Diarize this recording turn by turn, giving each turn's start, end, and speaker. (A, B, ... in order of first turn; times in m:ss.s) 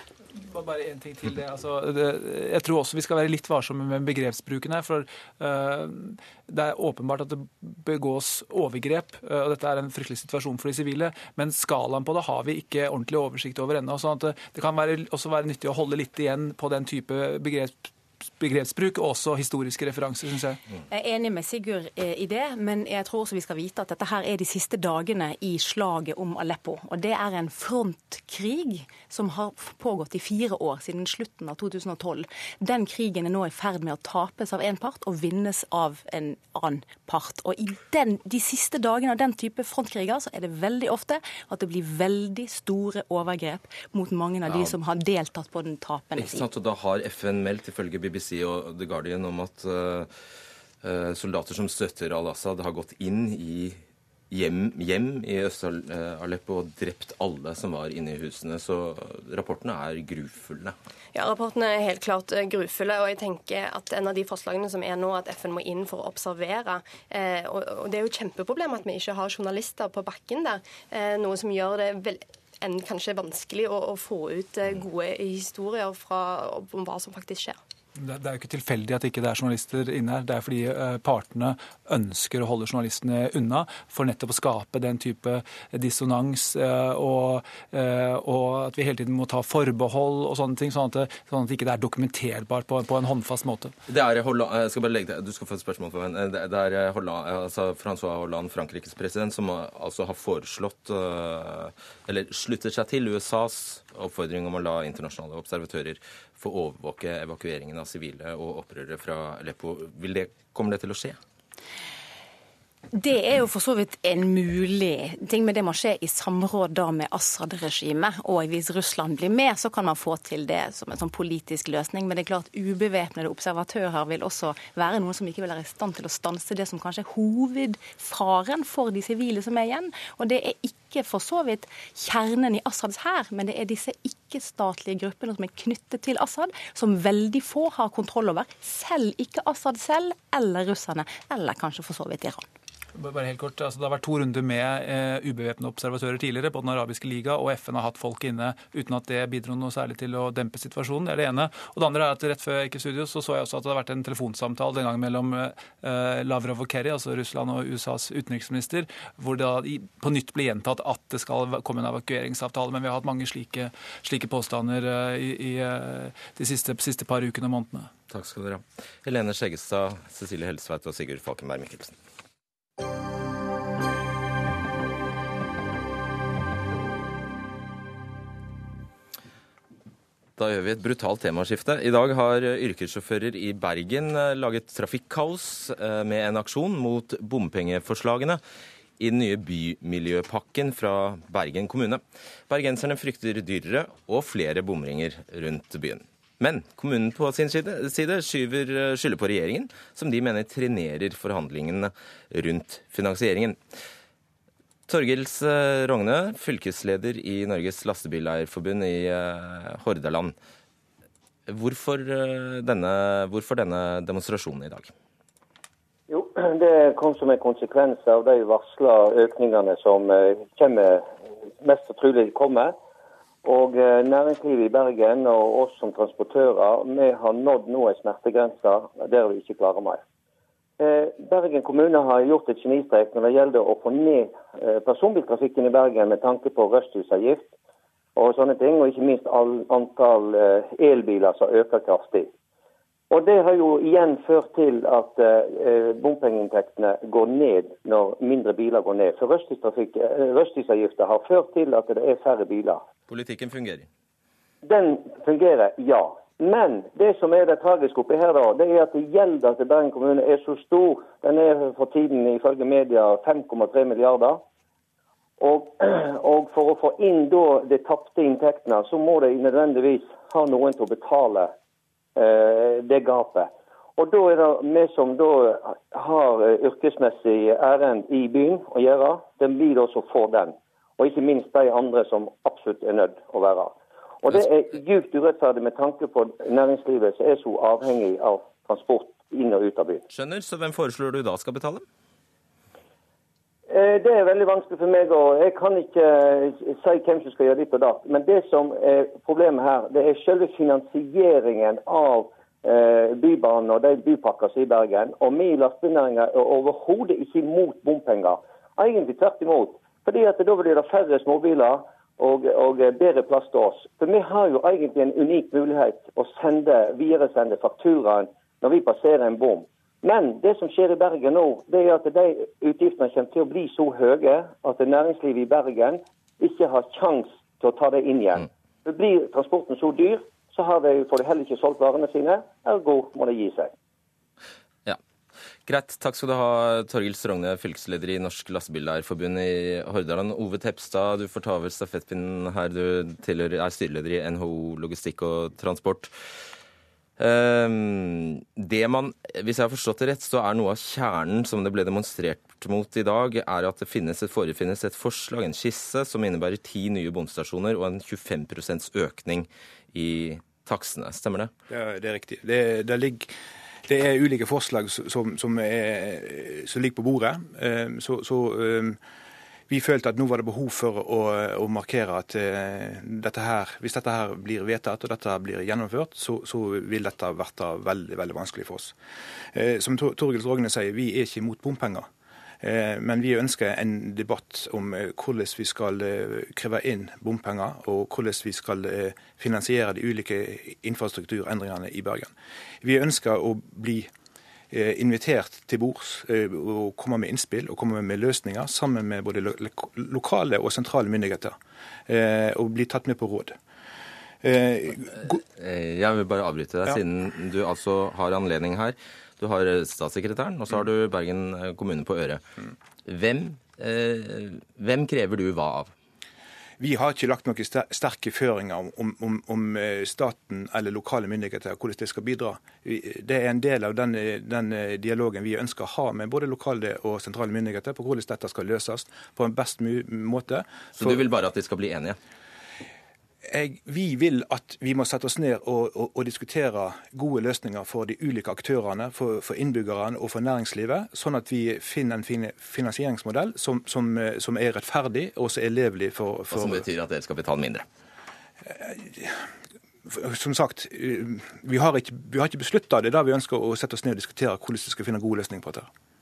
0:00.4-0:20.6 A
0:20.9-0:46.5 B
0:44.4-0:44.7 C
0:46.2-0:50.1 C
0:50.8-0:53.8 C
0:54.3-1:00.8 C
1:01.1-1:17.6 D
1:18.0-1:33.7 A
1:33.9-1:51.2 C
1:52.9-2:22.5 B
2:23.0-2:47.9 A
2:48.1-2:51.9 C
3:00.4-3:08.4 C
3:09.0-3:23.6 C
3:24.9-3:30.3 C
3:31.5-3:34.9 C
3:36.1-3:41.1 E
3:41.6-3:42.7 E
3:43.4-3:50.0 E
3:50.8-3:57.5 E
3:58.2-4:02.3 E
4:03.1-4:12.8 E
4:13.1-4:13.9 C
4:14.6-4:24.4 E
4:25.4-4:31.5 E
4:32.2-4:50.0 E
4:50.1-4:51.8 C
4:53.7-5:33.7 E
5:35.7-5:46.1 C
5:47.2-6:01.5 C
6:01.7-6:03.3 F
6:03.9-6:09.0 F
6:09.7-6:19.0 F
6:19.5-6:22.1 F
6:22.6-6:34.1 F
6:34.7-6:41.6 F
6:42.1-6:43.6 F
6:44.4-6:45.4 F
6:45.2-6:52.4 C
6:53.1-6:55.9 C
6:56.8-7:11.2 F
7:11.0-7:12.2 C
7:13.5-7:26.9 F
7:26.5-7:27.8 C
7:28.7-7:29.4 F
7:30.1-7:35.9 F